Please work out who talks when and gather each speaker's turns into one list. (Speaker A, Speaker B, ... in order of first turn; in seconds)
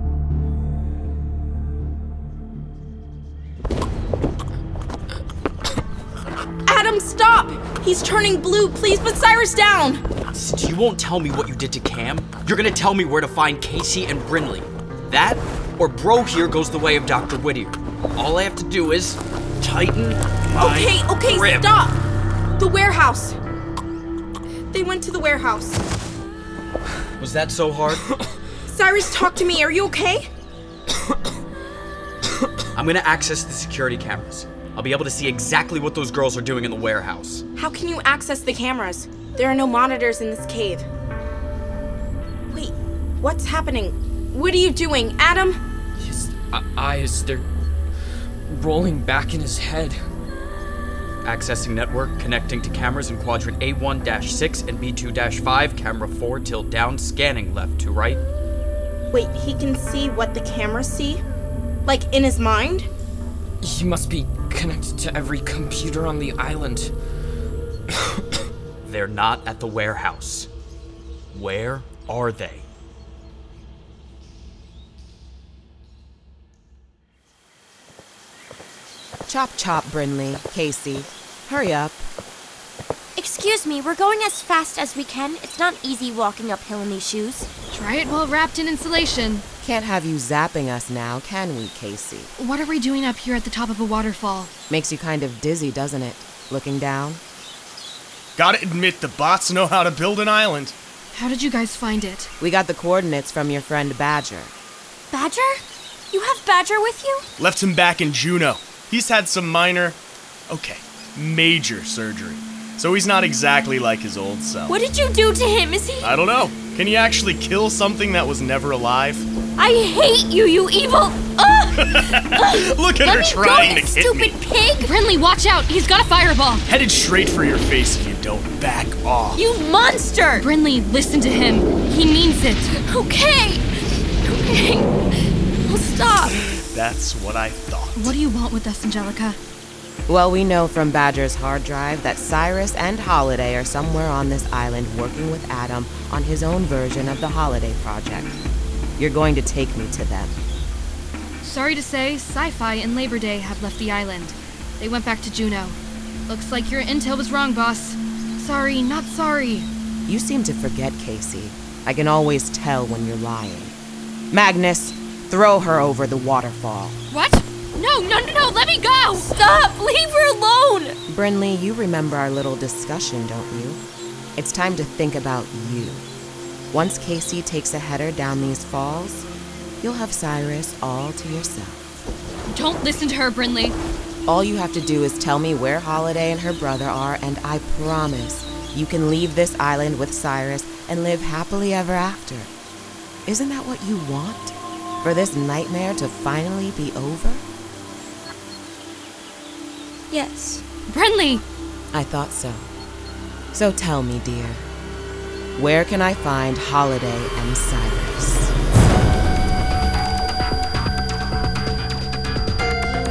Speaker A: 6.7-10.0, 20.5-22.0, 22.6-23.4, 24.7-25.8, 28.7-30.3, 37.5-40.9, 42.5-45.6, 59.1-61.2, 61.8-62.9
Speaker B: 10.3-21.7, 27.2-28.0, 32.7-37.4, 51.2-58.2, 68.8-70.5, 71.3-72.6
Speaker C: 46.0-47.5, 48.5-50.0, 63.6-66.9
Speaker D: 79.3-82.0, 89.6-92.3, 94.7-97.2, 102.4-104.5, 140.1-148.4, 149.0-150.3, 160.1-163.8, 164.3-167.0, 171.1-173.8, 174.4-176.0, 176.7-179.2, 179.8-182.0, 184.3-192.5, 193.2-197.4, 201.9-202.7, 203.5-204.6, 205.6-208.5
Speaker E: 83.2-87.5, 105.1-105.6, 106.1-107.2, 114.7-116.2, 119.6-124.9, 129.3-130.4, 132.8-133.6, 134.2-134.9, 135.6-136.3, 169.4-170.9, 200.1-200.6
Speaker F: 87.7-89.4, 92.4-94.5, 101.1-102.3, 124.8-126.6, 130.4-132.8, 137.9-139.4, 151.4-155.8, 156.3-159.7, 167.1-169.3, 182.5-183.8, 200.9-201.4
Speaker G: 98.3-100.7, 107.4-114.8, 116.0-119.3, 121.7-124.4, 126.7-129.4, 136.4-138.1